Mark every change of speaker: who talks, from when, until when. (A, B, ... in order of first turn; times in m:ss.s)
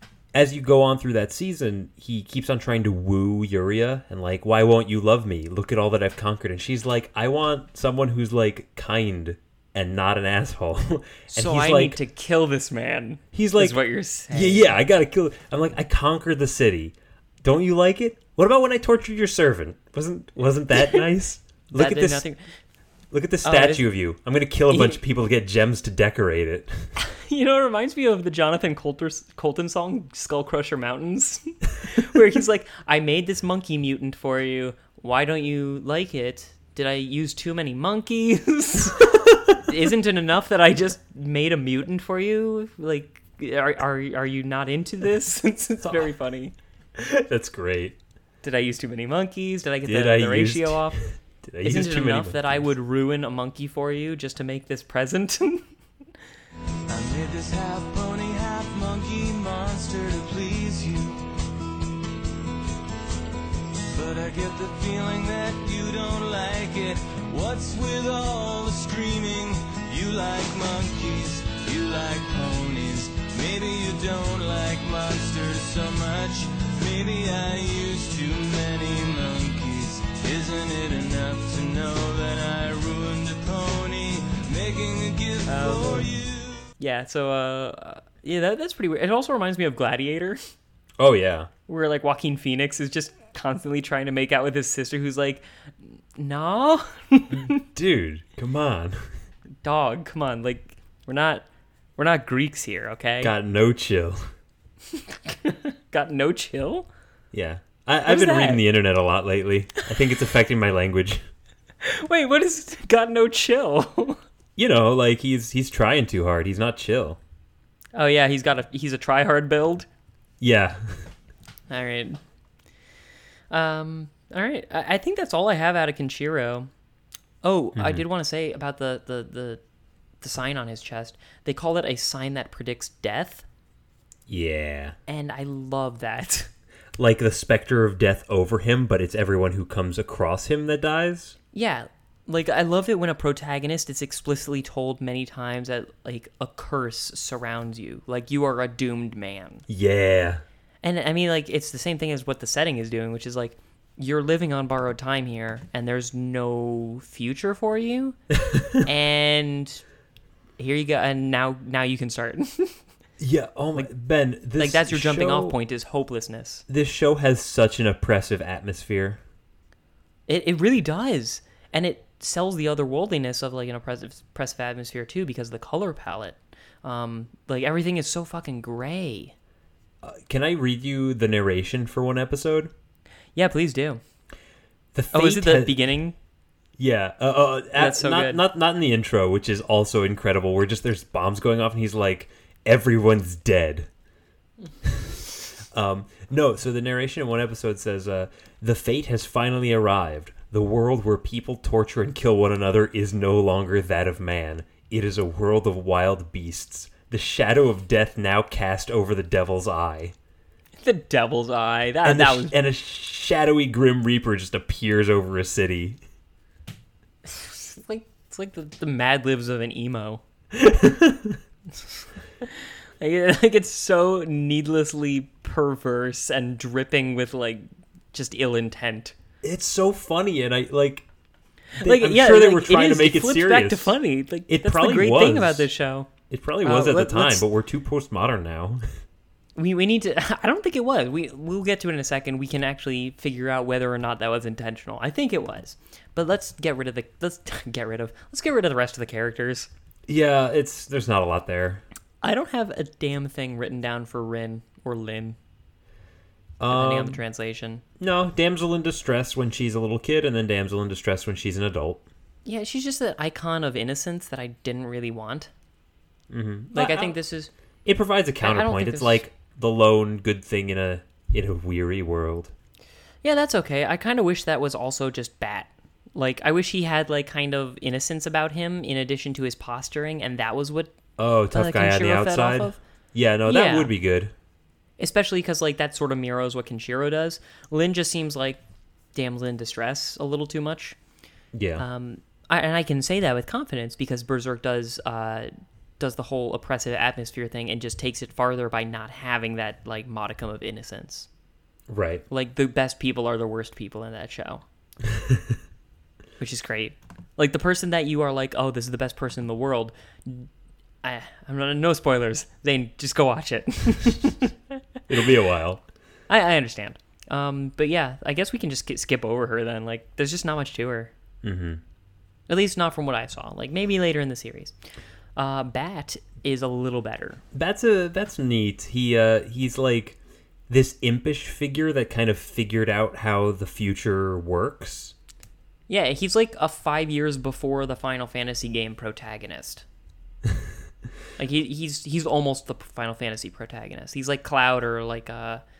0:00.3-0:12.0 A
0:11.3-0:14.7 B
0:13.3-0:22.3 A
0:21.7-0:22.4 B
0:23.1-0:26.9 A
0:23.4-0:23.8 B
0:24.7-0:25.0 B
0:27.0-0:46.5 B
0:47.0-0:48.0 A
0:48.4-0:51.0 B
0:49.8-0:52.4 A
0:51.6-0:55.7 B
0:56.9-1:01.3 C
1:03.9-1:26.7 C
1:25.4-1:26.1 B
1:26.8-1:30.4 B
1:31.0-1:31.5 A
1:31.7-1:37.5 B
1:37.3-1:39.1 A
1:39.6-1:41.4 B
1:42.0-1:43.3 B
1:43.2-1:44.3 A
1:45.0-1:46.8 B
1:47.3-1:51.2 A
1:48.0-1:48.6 B
1:51.8-1:54.2 B
1:54.6-1:57.2 A
1:57.9-1:59.9 B
2:00.4-2:01.1 A
2:01.7-2:02.2 B
2:03.5-2:06.7 B
2:07.4-2:09.6 B
2:07.8-2:08.0 A
2:10.2-2:13.4 B
2:14.3-2:15.0 A
2:15.1-2:16.5 B
2:17.0-2:21.4 A
2:21.5-2:29.6 B
2:29.7-2:30.4 A
2:30.8-2:38.2 B
2:38.5-2:38.8 A
2:38.8-2:39.8 B
2:40.6-2:42.8 B
2:43.2-2:45.6 A
2:44.6-2:46.6 B
2:46.7-2:49.2 A
2:50.3-2:59.3 B
3:00.0-3:02.7 A
3:03.4-3:04.0 B
3:04.9-3:05.8 A
3:05.1-3:06.1 B
3:06.8-3:13.9 A
3:07.7-3:08.4 B
3:14.8-3:30.1 A
3:30.8-3:32.5 B
3:32.0-3:36.0 A
3:37.2-3:40.2 B
3:40.5-3:41.4 A
3:42.4-3:49.1 B
3:49.4-3:51.0 A
3:51.8-3:56.1 B
3:51.8-3:53.9 A
3:54.5-3:55.7 A
3:56.3-3:58.8 A
3:56.6-3:57.4 B
3:59.6-4:09.7 B
4:10.1-4:11.8 A
4:12.2-4:15.4 B
4:16.6-4:17.2 A
4:16.7-4:17.8 B
4:18.0-4:22.0 A
4:22.4-4:25.5 B
4:26.3-4:27.2 A
4:26.7-4:27.5 B
4:27.8-4:32.5 A
4:28.4-4:29.2 B
4:33.2-4:40.9 B
4:41.2-4:44.3 A
4:41.5-4:42.8 B
4:43.4-4:43.9 B
4:45.0-4:48.6 B
4:49.1-4:51.0 B
4:51.5-4:51.8 A
4:51.8-5:01.3 B
5:01.9-5:02.2 A
5:02.3-5:04.6 B
5:05.1-5:05.5 A
5:06.4-5:10.5 B
5:11.0-5:14.5 B
5:15.1-5:15.8 A
5:16.3-5:21.1 B
5:21.4-5:21.8 A
5:22.5-5:24.7 B
5:25.4-5:27.4 B
5:27.5-5:30.2 A
5:30.7-5:35.1 A
5:35.9-5:39.8 B
5:41.4-5:45.6 B